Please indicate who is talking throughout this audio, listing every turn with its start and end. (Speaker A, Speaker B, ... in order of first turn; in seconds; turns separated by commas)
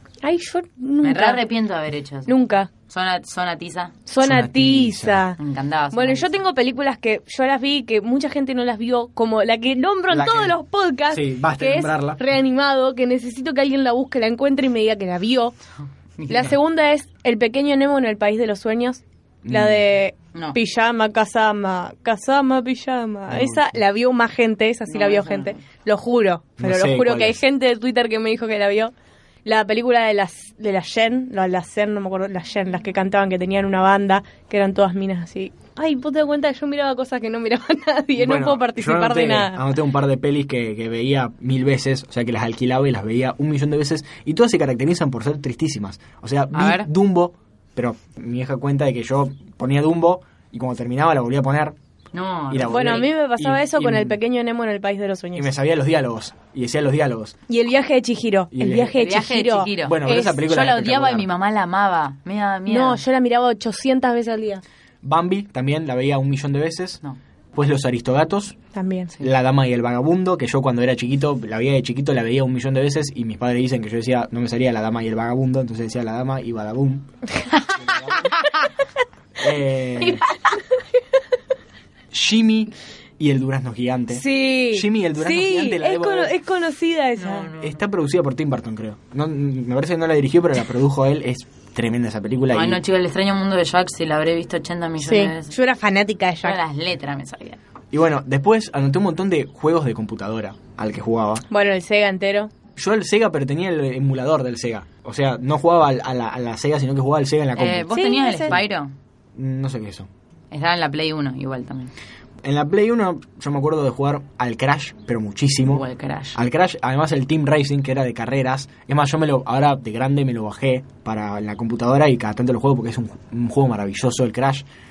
Speaker A: 0.2-1.4, Speaker B: 1.0-2.4, Speaker A: 2.3-2.7, Speaker B: 2.9-4.0, Speaker A: 4.1-5.4, Speaker C: 4.2-5.3, Speaker B: 5.4-6.4, Speaker A: 5.9-15.5, Speaker C: 10.1-10.6, Speaker C: 11.1-12.2, Speaker B: 16.2-16.6, Speaker A: 16.3-28.9, Speaker C: 19.4-19.8, Speaker C: 23.3-23.8, Speaker B: 24.9-25.6, Speaker C: 26.6-27.4, Speaker A: 29.4-39.6, Speaker C: 38.2-51.8, Speaker B: 46.5-46.9, Speaker B: 52.1-53.1, Speaker C: 52.5-54.2, Speaker A: 52.7-55.5, Speaker C: 55.3-57.4, Speaker A: 57.5-60.4, Speaker C: 58.5-59.0, Speaker B: 59.0-63.0, Speaker C: 59.8-61.3, Speaker A: 62.7-64.6, Speaker C: 65.0-67.0, Speaker C: 67.5-68.6, Speaker A: 68.7-69.1, Speaker C: 69.2-77.1, Speaker C: 77.7-78.4, Speaker C: 79.4-80.3, Speaker C: 82.1-86.3, Speaker A: 84.1-87.5, Speaker B: 87.2-87.7, Speaker C: 87.5-92.8, Speaker B: 92.5-95.6, Speaker A: 95.0-96.6, Speaker B: 96.4-97.6, Speaker C: 97.9-101.4, Speaker A: 101.5-102.5, Speaker C: 102.8-108.7, Speaker B: 107.5-108.9, Speaker A: 107.9-108.6, Speaker C: 109.4-110.1, Speaker B: 110.5-111.9, Speaker C: 112.4-124.7, Speaker B: 115.7-116.4